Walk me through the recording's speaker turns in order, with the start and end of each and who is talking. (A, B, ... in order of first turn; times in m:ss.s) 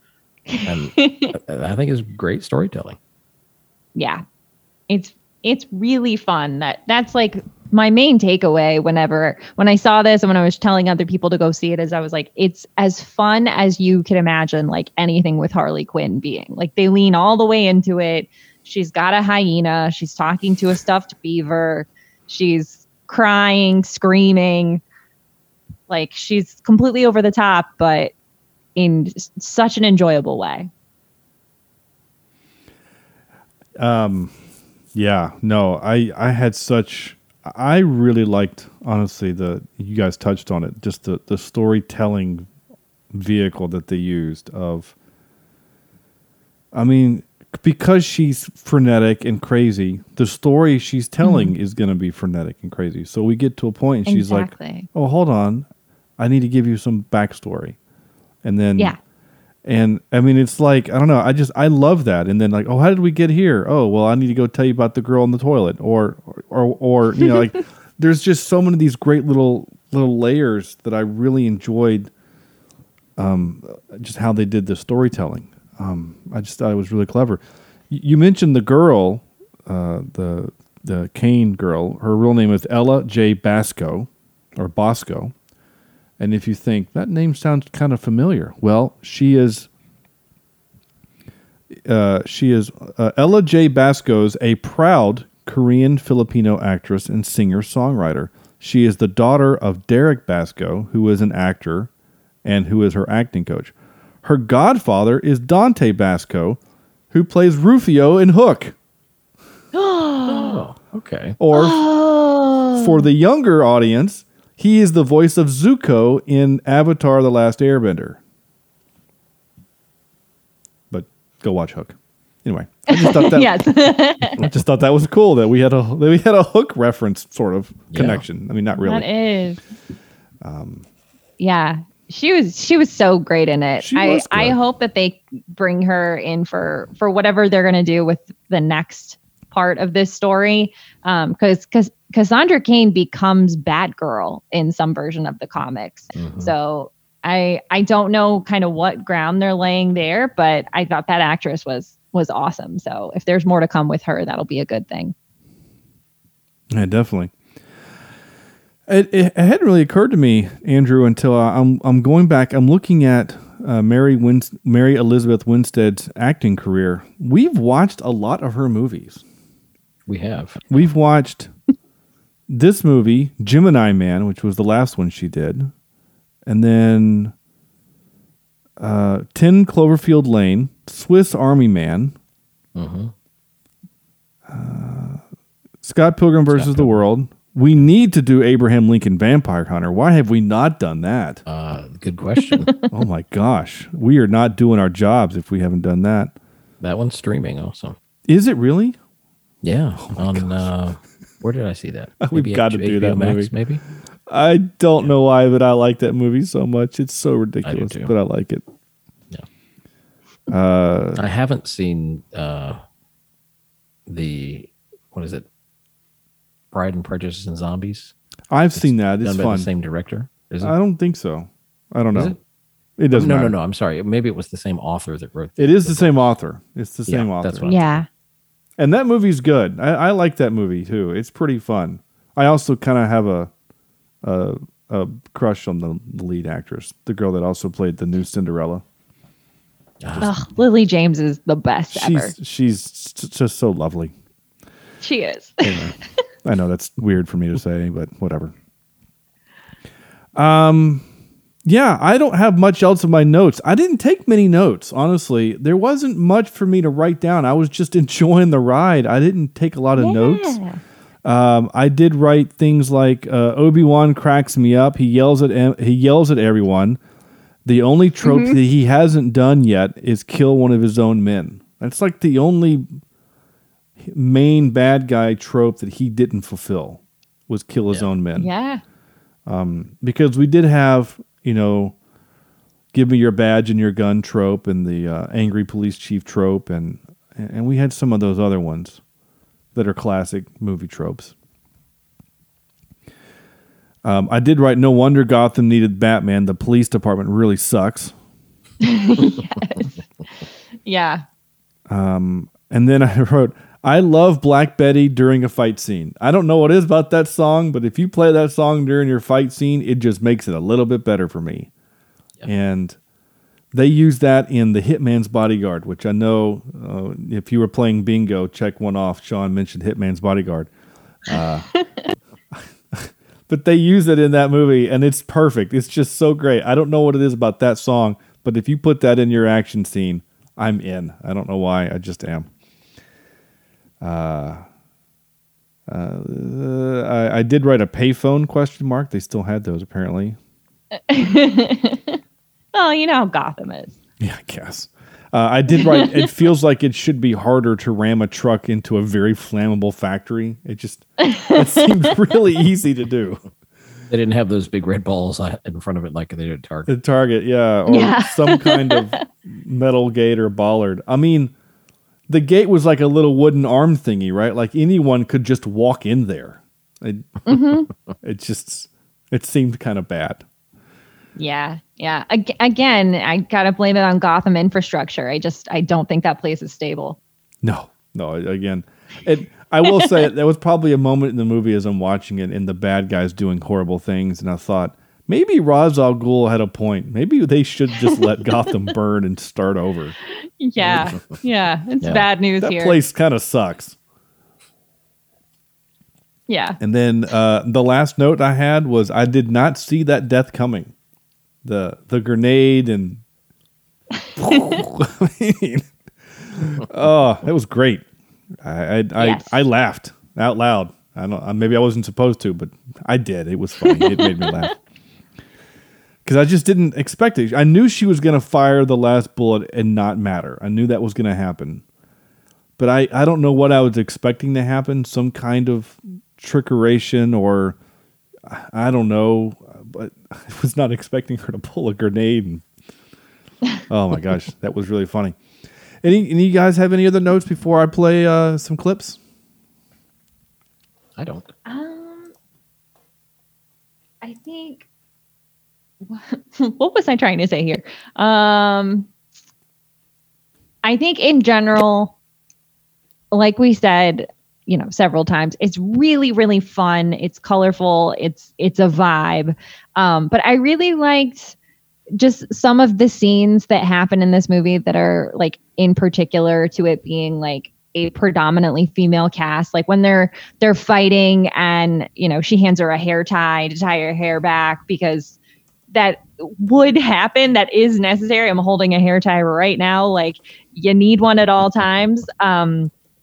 0:00.5-0:01.3 A
0:00.6-0:03.0 B
0:04.0-0:04.2 A
0:04.9-0:24.8 A
0:25.9-0:28.1 A
0:28.8-0:30.7 A
0:33.8-0:34.4 C
0:34.9-0:42.5 C
0:43.1-0:44.9 C
0:46.7-0:55.7 C
0:51.2-0:51.5 A
0:54.1-0:54.9 A
0:56.2-0:57.8 C
0:58.4-0:59.0 C
0:59.6-1:12.1 C
1:13.2-1:25.3 C
1:26.2-1:29.7 C
1:31.8-1:41.9 C
1:42.4-1:46.6 C
1:47.1-1:48.8 C
1:49.7-1:50.6 A
1:50.3-1:51.4 B
1:51.4-1:51.8 C
1:51.5-1:53.1 A
1:52.8-1:58.2 C
2:00.9-2:09.1 C
2:02.9-2:04.4 A
2:07.9-2:08.2 B
2:08.8-2:09.6 A
2:10.4-2:10.8 C
2:11.4-2:35.1 A
2:13.8-2:14.6 C
2:26.2-2:26.5 B
2:36.7-2:37.3 C
2:38.9-2:49.2 C
2:50.1-2:50.8 B
2:50.7-2:51.5 C
2:52.5-2:55.7 C
2:56.5-2:57.3 C
2:58.8-3:02.2 C
3:02.8-3:03.1 B
3:04.5-3:05.2 C
3:05.8-3:11.4 C
3:06.5-3:07.0 B
3:11.5-3:12.7 B
3:12.9-3:16.3 C
3:16.8-3:18.0 B
3:18.3-3:19.0 C
3:19.6-3:23.8 B
3:20.1-3:20.7 C
3:22.2-3:23.5 C
3:24.3-3:28.6 C
3:27.6-3:28.1 B
3:30.5-3:31.2 C
3:31.2-3:32.8 B
3:34.1-3:35.5 B
3:36.7-3:38.1 B
3:38.5-3:39.7 C
3:38.8-3:40.7 B
3:40.6-3:42.4 C
3:42.1-3:42.4 B
3:43.0-3:43.5 C
3:43.1-3:46.2 B
3:45.6-3:47.8 C
3:47.1-3:48.0 B
3:47.7-3:48.0 A
3:48.8-3:53.5 C
3:54.2-3:58.8 C
4:00.0-4:00.3 B
4:00.2-4:02.3 A
4:01.9-4:04.1 C
4:05.0-4:05.7 A
4:05.6-4:08.5 C
4:10.4-4:11.0 C
4:11.6-4:20.6 C
4:20.0-4:20.8 A
4:21.2-4:27.0 C
4:27.6-4:33.0 C
4:28.2-4:28.6 A
4:34.0-4:38.5 C
4:38.4-4:38.8 A
4:39.5-4:42.0 C
4:42.9-4:49.0 C
4:49.8-4:51.3 C
4:54.0-4:58.2 C
4:58.8-5:00.0 A
5:00.8-5:01.2 A
5:01.9-5:11.7 C
5:12.5-5:13.0 C
5:13.7-5:20.7 C
5:21.3-5:21.7 C
5:22.9-5:32.5 C
5:34.0-5:34.6 C
5:35.9-5:40.4 C
5:41.1-5:42.2 A
5:42.7-5:43.9 A
5:44.2-5:53.4 C
5:45.8-5:46.2 A
5:51.2-5:51.8 A
5:54.1-5:56.9 B
5:56.9-6:01.5 C
5:57.9-5:59.2 A
6:02.3-6:07.3 C
6:07.5-6:07.9 A
6:08.2-6:10.4 C
6:11.4-6:17.2 A
6:17.6-6:30.2 C
6:30.3-6:33.0 A
6:30.9-6:31.3 B
6:32.6-6:34.0 C
6:36.5-6:36.8 A
6:36.8-6:40.9 C
6:41.6-6:43.2 C
6:44.4-6:45.9 C
6:46.5-6:48.0 C
6:48.6-6:54.8 C
6:49.2-6:49.5 A
6:53.8-6:54.5 A
6:56.2-7:01.8 C
7:02.8-7:07.8 C
7:08.5-7:12.6 C
7:13.9-7:15.4 C
7:16.0-7:19.2 C
7:21.2-7:21.5 B
7:21.7-7:22.3 A
7:24.2-7:24.9 A
7:26.0-7:29.1 A
7:30.8-7:32.1 A
7:33.3-7:41.6 A
7:42.2-7:55.4 A
7:55.9-8:02.9 A